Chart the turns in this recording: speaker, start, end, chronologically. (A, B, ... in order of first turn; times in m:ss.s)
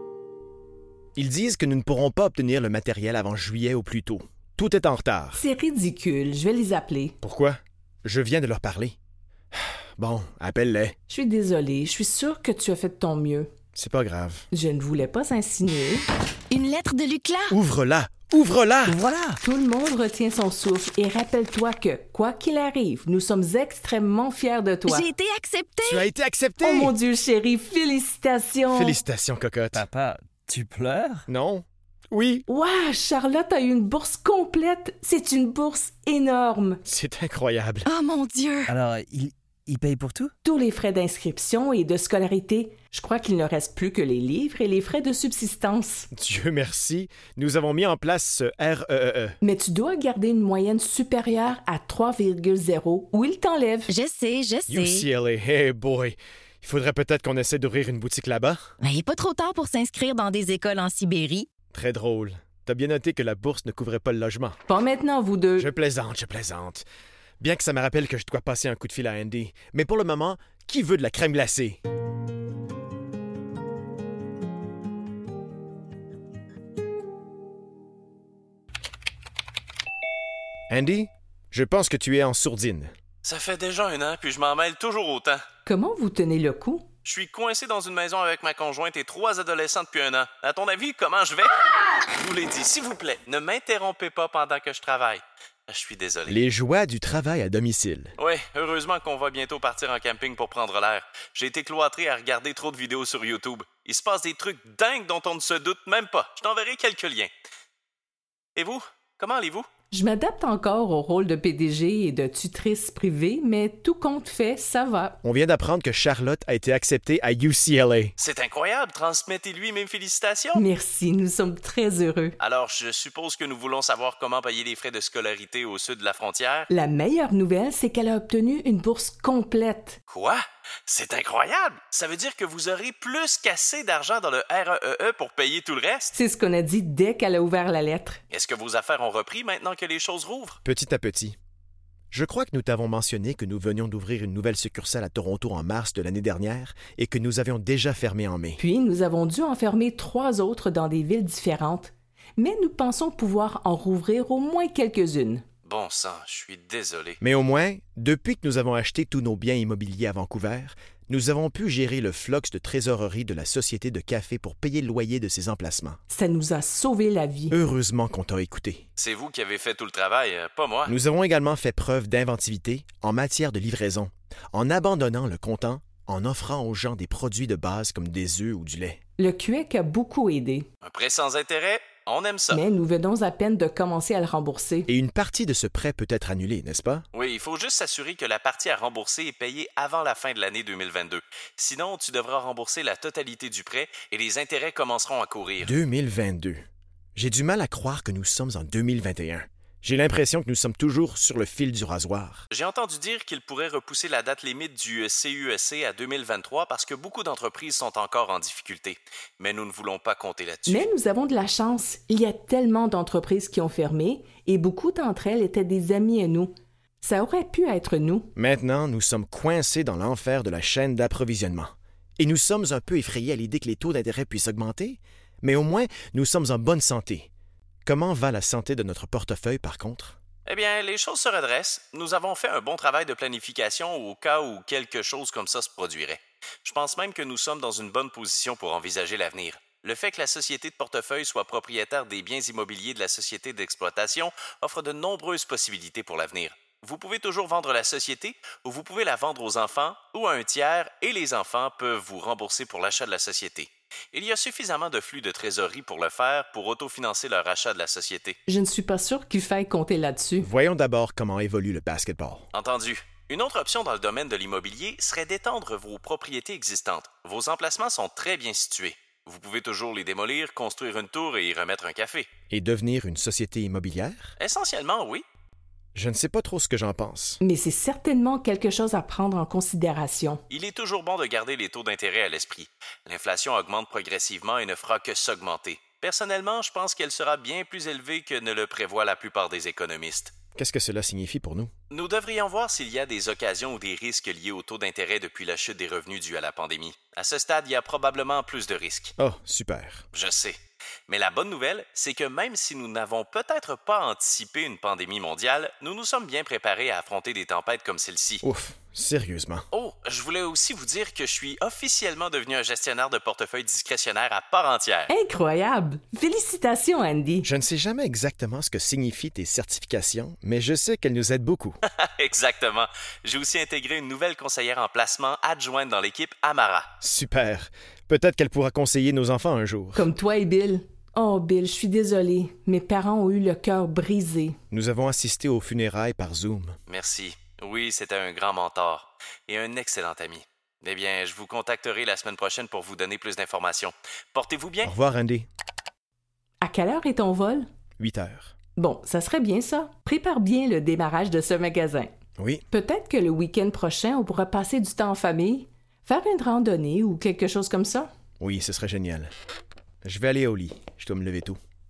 0:01.2-0:05.4 A
0:05.3-0:07.1 B
0:07.2-0:08.9 A
0:09.5-0:11.0 A
0:11.1-0:13.5 B
0:13.7-0:14.4 A
0:14.5-0:16.0 B
0:16.5-0:17.5 C
0:17.5-0:19.0 A
0:18.9-0:19.4 D
0:19.4-0:25.1 B
0:24.8-0:26.1 C
0:25.8-0:26.9 A
0:26.6-0:29.0 B
0:28.7-0:29.8 A
0:29.7-0:31.3 D
0:31.3-0:32.4 A
0:32.5-0:36.8 B
0:36.8-0:37.9 A
0:37.9-0:38.7 C
0:38.7-0:40.3 D
0:40.4-0:46.1 B
0:46.1-0:49.4 A
0:49.4-0:53.9 B
0:53.9-0:55.1 C
0:54.7-0:58.6 A
0:58.8-1:01.5 C
1:01.7-1:04.6 A
1:04.7-1:05.7 B
1:05.6-1:06.8 A
1:07.4-1:11.8 A
1:20.7-1:22.9 A
1:23.2-1:25.4 E
1:25.6-1:26.8 B
1:27.0-1:31.6 E
1:32.2-1:36.4 E
1:36.3-1:38.1 A
1:38.2-1:47.3 E
1:48.6-1:49.7 E
1:49.9-1:55.2 B
1:55.2-1:58.1 A
1:58.2-2:00.6 E
2:00.5-2:02.4 B
2:02.4-2:06.7 E
2:06.7-2:10.0 B
2:10.1-2:16.1 E
2:16.1-2:18.2 B
2:18.3-2:20.6 E
2:20.6-2:21.4 A
2:22.1-2:28.6 A
2:28.6-2:35.4 B
2:35.6-2:37.2 E
2:37.2-2:46.0 A
2:46.1-2:47.6 B
2:47.5-2:48.8 A
2:49.0-2:50.9 E
2:50.8-2:59.0 A
2:59.2-3:00.7 B
3:00.8-3:02.6 E
3:02.5-3:04.9 B
3:04.9-3:07.0 A
3:07.1-3:15.7 E
3:15.6-3:16.6 A
3:17.2-3:22.4 A
3:22.5-3:30.9 E
3:30.7-3:38.3 B
3:38.4-3:47.3 A
3:47.8-3:50.2 A
3:50.4-4:18.4 E
4:18.5-4:20.5 B
4:20.4-4:22.5 A
4:22.5-4:32.3 E
4:32.5-4:34.3 A
4:34.4-4:35.2 E
4:35.9-4:37.4 A
4:37.4-4:40.4 B
4:40.5-4:50.3 E
4:50.6-4:51.7 A
4:51.9-4:59.1 E
4:59.2-5:00.0 A
5:00.1-5:08.4 E
5:08.4-5:09.6 A
5:09.7-5:15.1 E
5:15.1-5:17.4 B
5:17.4-5:21.8 A
5:22.2-5:26.9 E
5:27.0-5:30.0 A
5:30.0-5:34.6 B
5:34.7-5:36.8 A
5:36.9-5:44.9 E
5:44.8-5:45.5 A
5:46.6-5:47.7 B
5:48.0-5:48.5 A
5:48.8-5:52.1 B
5:52.4-5:52.6 A
5:52.7-5:58.1 B
5:58.4-5:59.3 A
6:00.0-6:01.6 A